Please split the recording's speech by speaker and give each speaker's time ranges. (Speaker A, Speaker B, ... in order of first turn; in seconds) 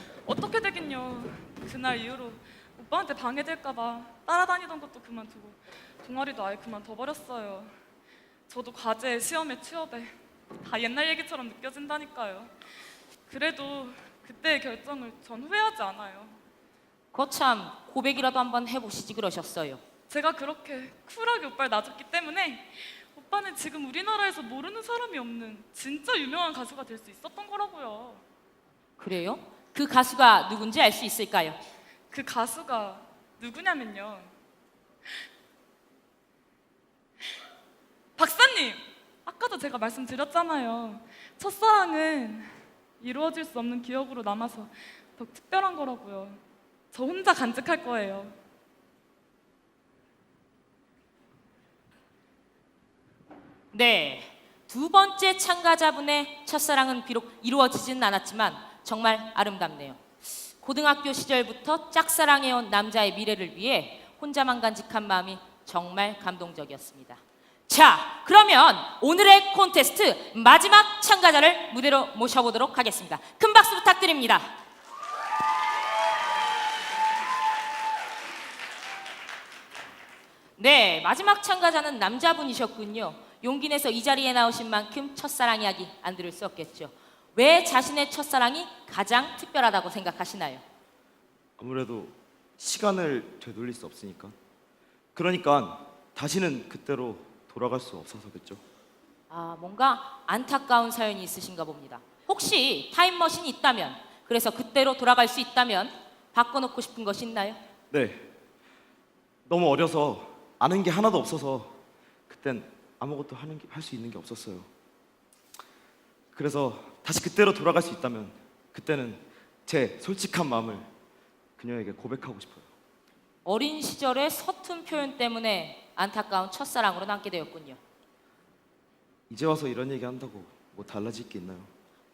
Speaker A: 0.2-7.7, 8.5-12.5, 13.3-16.4, 20.1-28.2, 32.1-34.3, 38.2-46.4, 46.9-48.4
Speaker B: 17.1-19.8, 29.0-31.6, 53.7-60.0, 60.6-74.5, 80.6-90.6, 99.3-107.6, 123.4-127.8
Speaker C: 91.6-94.3, 95.1-98.6, 107.9-108.3, 109.5-111.8, 112.3-114.7, 116.3-120.9, 121.6-122.7, 129.3-131.7